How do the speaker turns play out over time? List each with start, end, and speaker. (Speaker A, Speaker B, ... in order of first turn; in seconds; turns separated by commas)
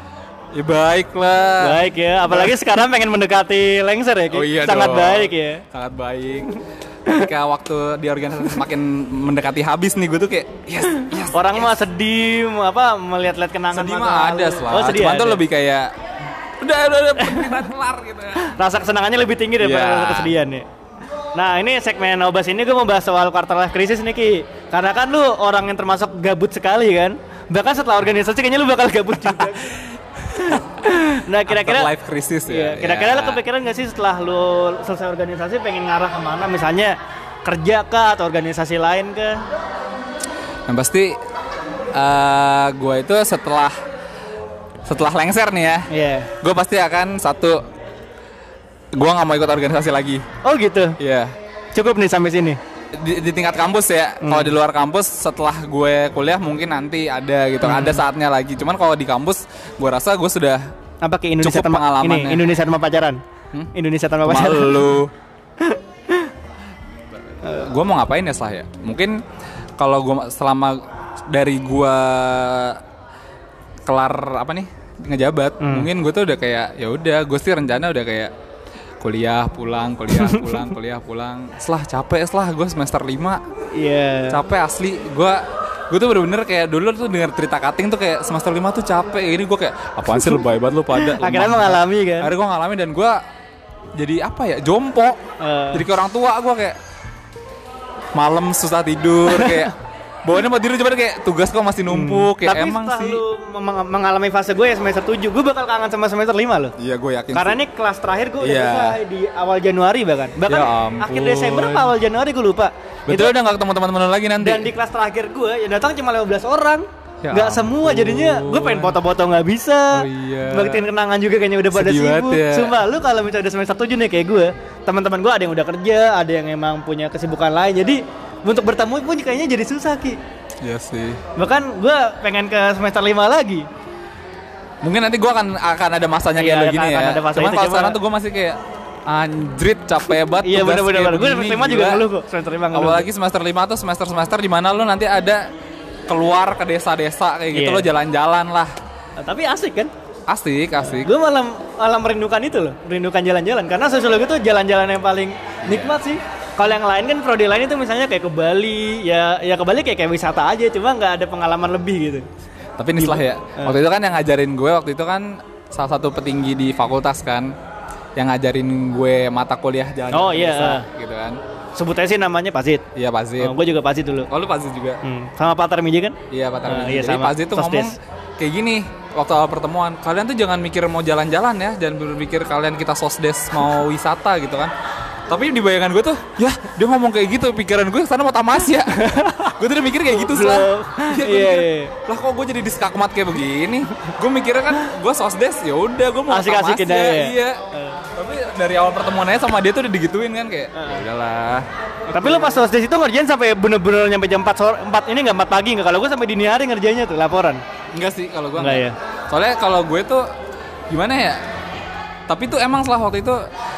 Speaker A: 0.5-2.6, Speaker B: 1.6-5.6, Speaker A: 4.3-11.7, Speaker B: 11.0-15.4, Speaker A: 13.7-15.9, Speaker A: 16.6-18.5, Speaker B: 17.2-17.6, Speaker B: 18.4-20.6, Speaker A: 19.6-20.3, Speaker B: 21.4-31.9, Speaker A: 30.3-33.4, Speaker B: 32.5-39.4, Speaker A: 40.7-41.1, Speaker A: 41.9-43.7, Speaker A: 44.8-45.9, Speaker B: 45.9-46.3, Speaker A: 46.4-47.6, Speaker A: 48.9-50.2, Speaker B: 50.4-51.0, Speaker A: 51.0-51.3, Speaker B: 51.7-52.6, Speaker A: 52.9-60.6, Speaker B: 54.2-54.5, Speaker B: 57.6-58.0, Speaker B: 61.0-63.2, Speaker A: 61.4-62.4, Speaker B: 63.7-64.9, Speaker A: 64.2-65.1, Speaker B: 65.6-66.3, Speaker A: 67.5-69.2, Speaker A: 69.8-72.8, Speaker A: 73.8-78.3, Speaker B: 75.6-75.9, Speaker A: 79.0-83.4, Speaker B: 80.1-80.6, Speaker B: 83.8-84.4, Speaker A: 84.3-93.2, Speaker B: 90.1-90.4, Speaker B: 90.9-92.3, Speaker A: 94.0-95.2, Speaker B: 95.4-95.8, Speaker A: 95.7-96.8, Speaker A: 98.2-103.2, Speaker B: 99.3-99.7, Speaker B: 101.9-106.7, Speaker A: 106.8-107.6, Speaker B: 107.3-113.3, Speaker A: 108.4-109.0, Speaker A: 110.5-111.9, Speaker A: 113.1-114.7, Speaker B: 114.4-130.2, Speaker A: 117.2-119.0, Speaker A: 119.9-120.8, Speaker A: 121.7-122.8, Speaker A: 130.6-131.2, Speaker B: 131.3-133.7, Speaker A: 134.8-142.0, Speaker B: 136.3-138.0, Speaker B: 140.4-143.1, Speaker A: 142.7-145.5, Speaker A: 146.1-148.7, Speaker B: 147.5-147.9, Speaker B: 149.2-149.9, Speaker A: 150.3-151.1, Speaker B: 151.0-162.2, Speaker A: 155.6-155.9, Speaker A: 162.8-167.5, Speaker B: 163.0-163.8, Speaker A: 168.2-171.4, Speaker B: 170.1-170.9, Speaker B: 171.8-172.8, Speaker A: 172.9-173.6, Speaker B: 173.4-174.3, Speaker A: 174.3-175.0, Speaker B: 175.0-178.0, Speaker A: 176.3-184.7, Speaker A: 185.3-197.6, Speaker B: 188.8-189.5, Speaker B: 190.1-191.9, Speaker B: 196.3-198.0, Speaker A: 198.1-201.7, Speaker B: 200.7-201.0, Speaker B: 202.1-207.6, Speaker A: 202.2-202.5, Speaker A: 207.9-210.3, Speaker B: 208.6-208.9, Speaker A: 210.9-211.4, Speaker A: 212.3-213.4